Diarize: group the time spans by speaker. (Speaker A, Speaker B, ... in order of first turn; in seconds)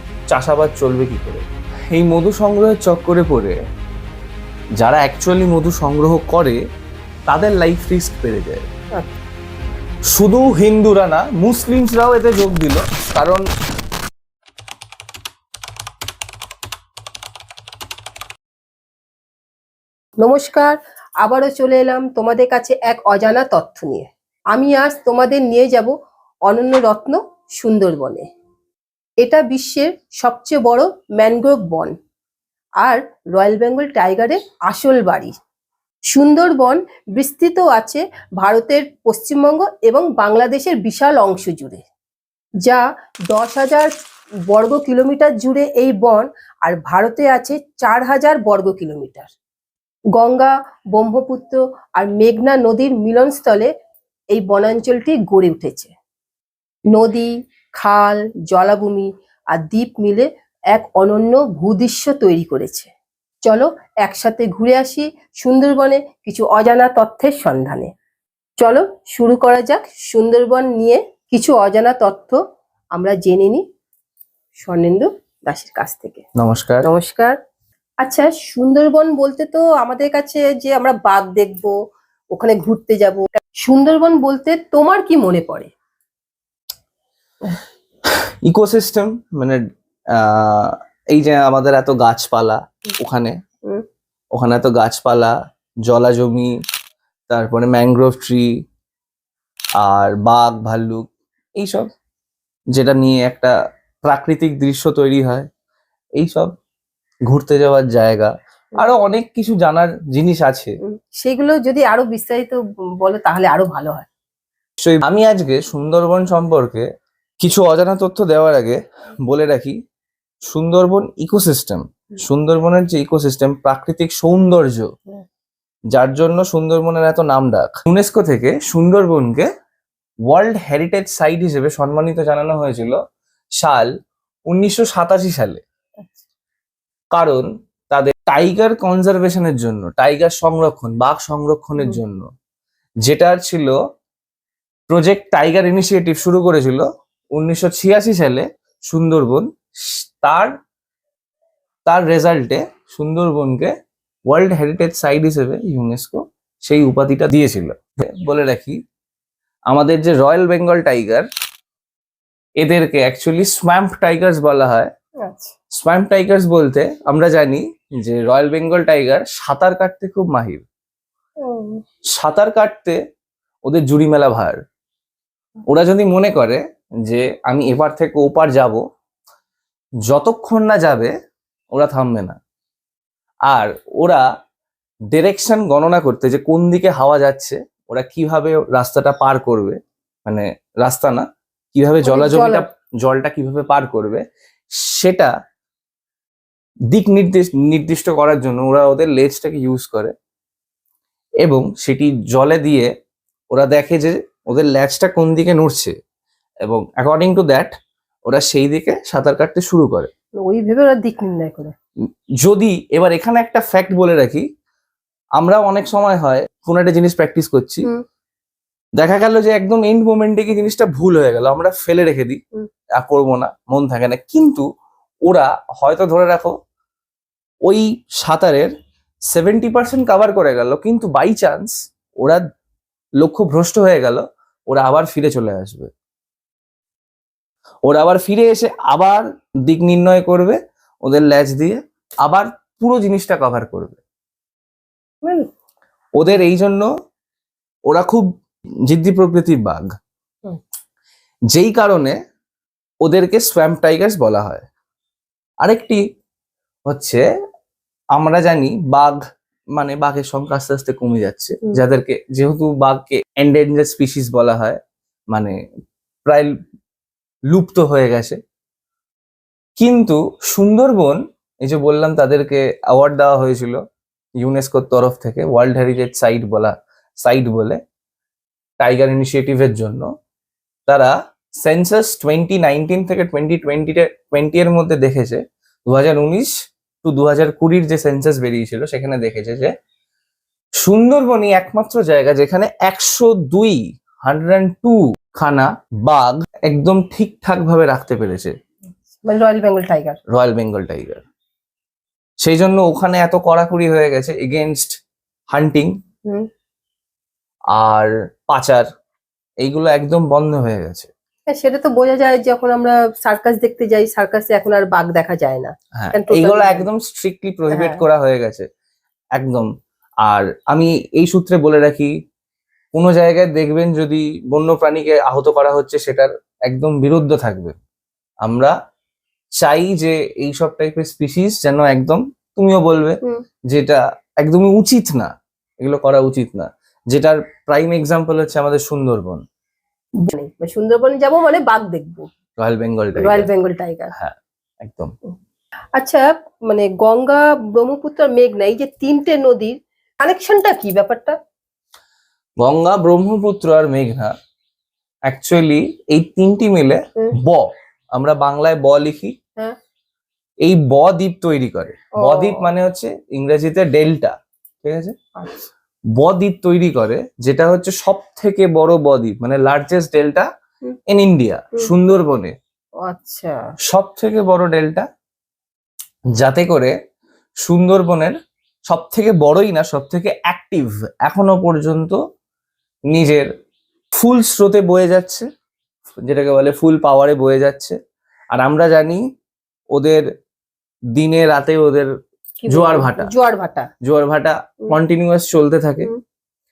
Speaker A: 0.3-3.6, 4.8-6.6, 7.3-8.7, 10.1-13.4, 76.3-76.9, 88.4-89.6, 90.1-93.3, 94.3-95.3, 95.9-96.5, 97.3-98.5, 99.8-101.9, 102.7-103.5, 104.0-105.5, 106.2-106.5, 107.3-110.7, 114.8-116.8, 117.4-119.8, 120.5-124.9, 125.9-129.5, 130.3-133.0, 133.6-133.9, 134.5-135.6, 137.1-142.3, 143.0-143.8, 144.9-150.6, 151.9-153.7, 154.3-158.8, 159.7-161.3, 162.6-164.9, 165.8-170.6, 172.1-173.0, 173.7-174.6, 175.7-178.8, 180.1-181.1, 181.7-182.4, 183.5-184.2, 185.1-194.2, 194.8-195.3, 196.9-200.1, 201.4-202.9, 203.5-205.9, 206.7-207.8, 208.3-210.1, 212.4-214.4, 215.4-217.9, 219.0-222.4, 223.0-224.7, 225.3-226.5, 227.7-228.7, 229.3-232.4, 233.2-235.9, 237.9-244.0, 246.2-246.9, 247.9-248.3, 248.9-249.8, 251.5-252.2, 253.0-254.7, 255.6-256.0, 256.9-257.2, 258.1-259.2, 259.7-264.8, 266.2-266.5, 267.5-268.4, 269.8-273.8, 274.4-277.8, 278.8-280.1, 280.9-286.5, 287.0-289.7, 290.8-298.6, 300.3-301.2, 302.4-304.9, 305.5-305.9, 307.7-308.9, 309.6-311.1, 315.9-318.7, 319.4-319.7, 320.2-322.1, 322.9-327.8, 328.4-328.7, 329.6-333.2, 333.7-339.4, 342.6-343.5, 344.1-345.1, 352.6-354.3, 355.3-359.3, 360.6-365.1, 366.2-370.5, 371.1-372.5, 373.9-375.1, 376.4-376.9, 377.6-378.4, 378.9-382.2, 383.1-383.5, 384.1-385.5, 386.2-388.0, 388.5-389.2, 389.9-390.2, 391.1-392.1, 392.7-393.3, 394.0-396.1
Speaker B: 20.2-25.9, 26.4-28.3, 29.2-31.9, 32.8-35.3, 36.1-41.8, 42.6-43.9, 44.5-49.3, 50.1-53.7, 54.3-55.9, 56.9-62.9, 63.4-67.9, 68.6-72.4, 72.9-73.6, 74.6-76.2, 76.8-77.3, 78.0-81.7, 82.3-85.7, 110.8-114.1, 165.2-165.5, 171.4-171.8, 192.0-192.7, 210.4-211.7, 245.2-245.5, 299.0-300.2, 311.5-316.9, 317.7-318.0, 340.2-342.3, 343.1-344.1, 346.0-351.4, 362.2-362.7, 365.4-365.7, 373.0-373.6, 392.6-393.9